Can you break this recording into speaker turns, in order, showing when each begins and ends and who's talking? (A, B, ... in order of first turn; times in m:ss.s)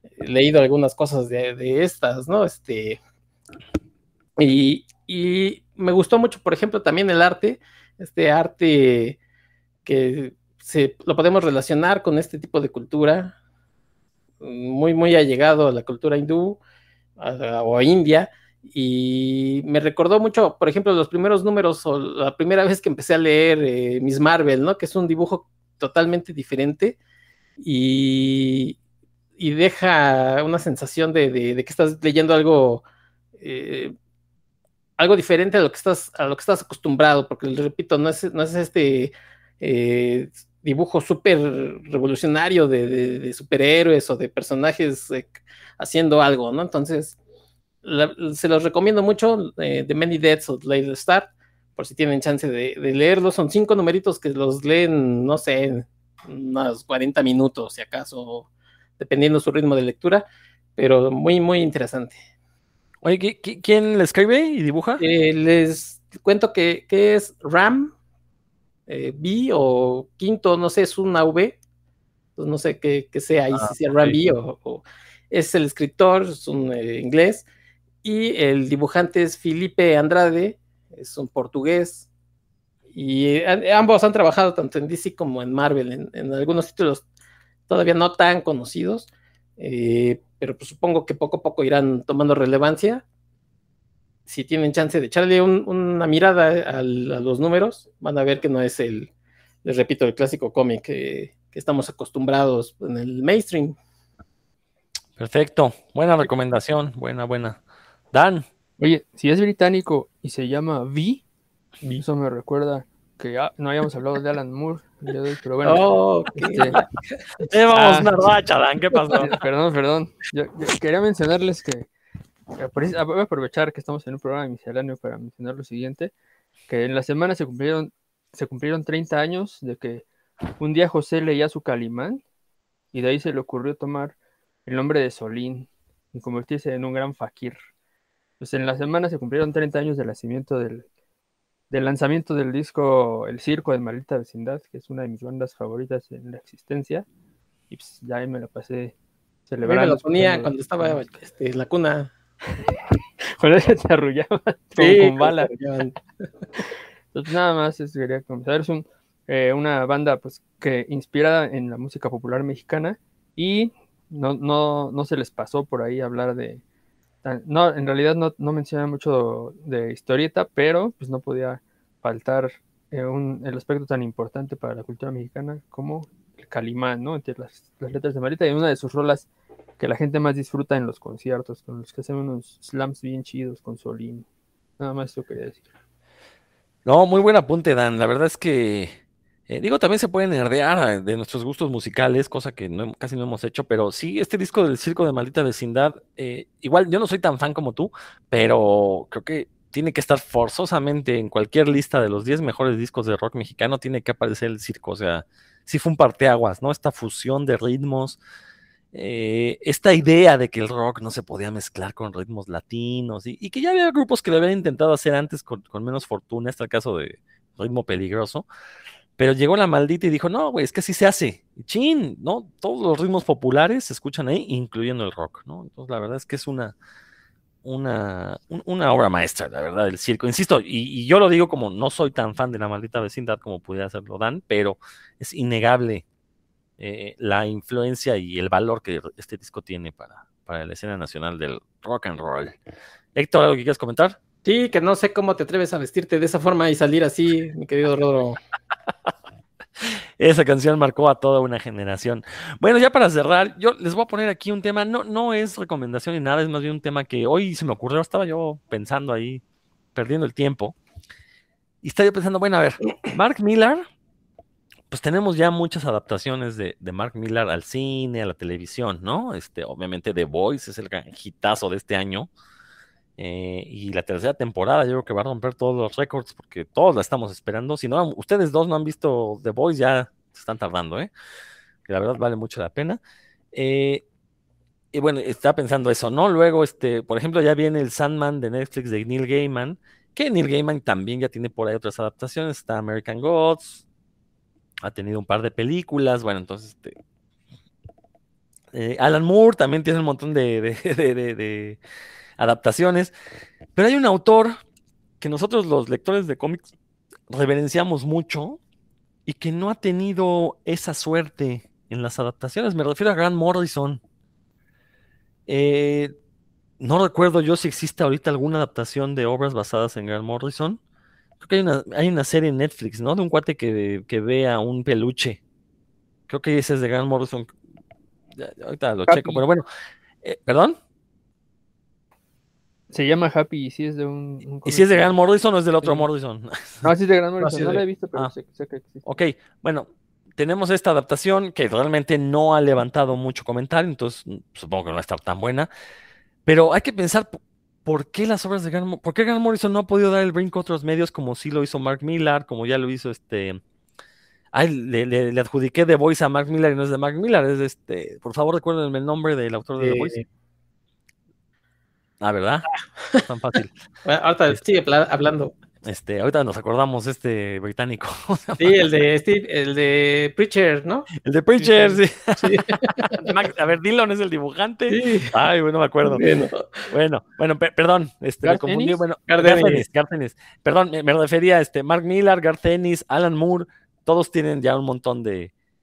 0:00.2-0:03.0 A
0:04.4-0:09.2 A
0:09.8-0:13.3 A
0:14.4-0:16.6 A
0:17.2-0:27.0 A
0:27.6-0:28.8 A
0:29.4-0:32.8 A
0:33.4-0:33.9 A
0:35.0-0:47.2 A
0:47.8-1:02.2 A
1:03.0-1:05.0 B
1:05.0-1:07.9 A
1:08.9-1:11.6 A
1:12.4-1:17.4 A
1:13.5-1:14.2 B
1:18.0-1:22.1 A
1:22.9-1:27.0 A
1:27.7-1:33.0 A
1:34.2-1:39.1 A
1:39.6-1:43.8 A
1:45.2-1:47.6 B
1:48.1-1:48.4 B
1:48.8-1:51.2 C
1:51.8-1:56.8 C
1:55.6-1:56.8 A
1:57.4-1:59.4 B
1:57.7-1:58.1 C
1:59.1-2:01.9 C
2:02.6-2:06.1 C
2:06.7-2:10.0 C
2:10.6-2:12.2 C
2:12.9-2:17.6 C
2:18.4-2:20.8 C
2:21.7-2:27.0 C
2:27.7-2:28.9 C
2:29.5-2:31.0 C
2:29.6-2:32.1 A
2:33.4-2:35.5 C
2:34.8-2:36.0 A
2:37.1-2:46.6 C
2:47.2-2:59.3 C
2:59.8-3:04.2 C
3:04.8-3:05.6 C
3:06.8-3:09.0 B
3:09.5-3:28.2 B
3:28.9-3:38.4 B
3:39.2-3:46.7 B
3:47.6-3:56.0 B
3:56.8-4:02.6 B
4:03.1-4:04.2 B
4:04.4-4:08.4 A
4:09.8-4:19.4 B
4:19.9-4:20.8 B
4:21.8-4:23.8 B
4:24.9-4:32.3 B
4:33.2-4:41.1 B
4:41.9-4:43.0 B
4:43.5-4:44.0 B
4:44.9-4:53.8 B
4:54.8-4:57.0 B
4:58.7-5:01.8 B
5:02.4-5:03.1 B
5:03.7-5:04.6 B
5:05.2-5:06.7 B
5:07.3-5:08.6 B
5:09.2-5:14.0 B
5:15.5-5:16.1 B
5:16.8-5:20.8 B
5:21.4-5:25.4 B
5:26.3-5:27.5 B
5:28.4-5:29.6 B
5:29.1-5:29.4 C
5:30.2-5:30.8 B
5:32.9-5:35.1 C
5:34.6-5:36.9 B
5:36.8-5:39.0 C
5:37.4-5:38.3 B
5:39.0-5:45.7 B
5:46.4-5:53.6 B
5:54.5-6:00.2 B
5:59.8-6:00.2 A
6:02.2-6:02.7 B
6:03.2-6:03.7 B
6:04.0-6:05.5 A
6:05.8-6:08.8 B
6:08.6-6:11.1 A
6:11.2-6:16.2 B
6:12.4-6:13.3 A
6:14.9-6:15.3 A
6:16.0-6:16.9 A
6:16.9-6:25.5 B
6:18.4-6:19.0 C
6:19.3-6:19.8 A